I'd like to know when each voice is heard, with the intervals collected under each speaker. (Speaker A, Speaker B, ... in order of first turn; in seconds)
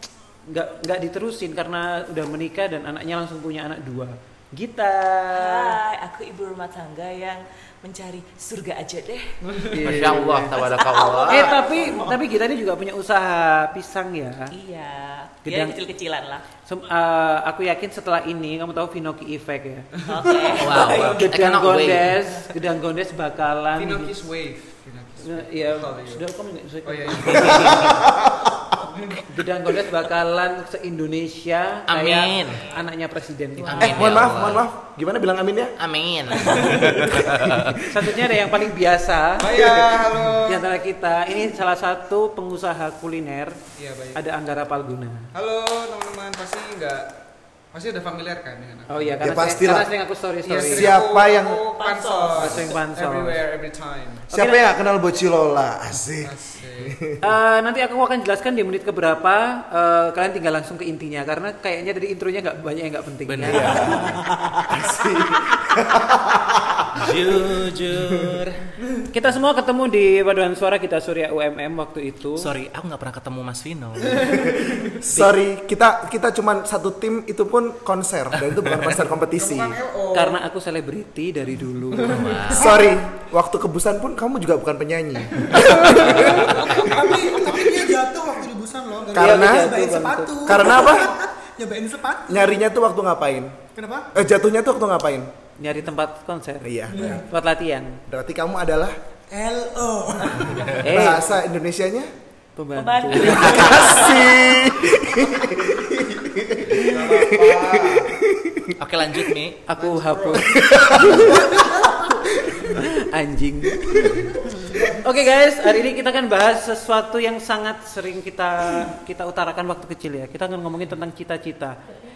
Speaker A: 0.4-5.8, 9.7-10.5, 11.2-14.5, 15.4-15.8, 16.6-19.9, 20.8-24.1, 25.2-28.0, 29.2-34.3, 37.8-39.5, 40.4-43.6, 44.1-45.3, 48.9-50.9, 52.4-53.4, 54.3-54.6, 57.2-64.1, 69.1-72.5, 80.1-82.6, 89.1-90.8, 95.6-98.0, 100.8-101.3, 102.6-104.0, 109.7-111.6, 112.6-121.8
Speaker B: 5.3-9.4, 10.4-12.2, 14.5-16.4, 20.1-21.3, 51.3-52.7, 102.7-104.3
Speaker C: 9.5-10.0, 20.0-20.5, 23.7-26.3, 26.8-28.2, 28.8-29.3, 36.4-36.9, 39.4-40.7, 43.7-44.2, 45.3-47.1, 47.7-49.2, 50.4-54.3, 56.2-57.0, 79.2-80.4, 82.0-82.3, 106.7-108.2, 109.7-110.8
Speaker D: 9.8-11.5, 20.6-22.1, 31.9-32.6, 33.6-34.6, 35.8-37.8, 63.3-65.2, 66.9-68.7, 72.4-74.7, 82.0-82.8, 108.8-109.6
Speaker E: 27.4-28.6, 33.8-35.8, 36.3-38.2, 39.6-40.1, 49.2-49.9, 50.7-51.6, 54.3-57.2, 63.4-68.3, 74.8-79.8, 82.5-87.6, 89.1-89.8, 90.4-91.1, 92.3-93.6, 94.1-95.3, 96.6-97.2, 98.1-99.0, 100.6-102.1, 103.4-109.3, 110.4-112.8, 113.8-114.4
Speaker F: 85.9-92.6, 93.7-94.3, 96.9-97.2, 99.3-100.8, 111.5-111.9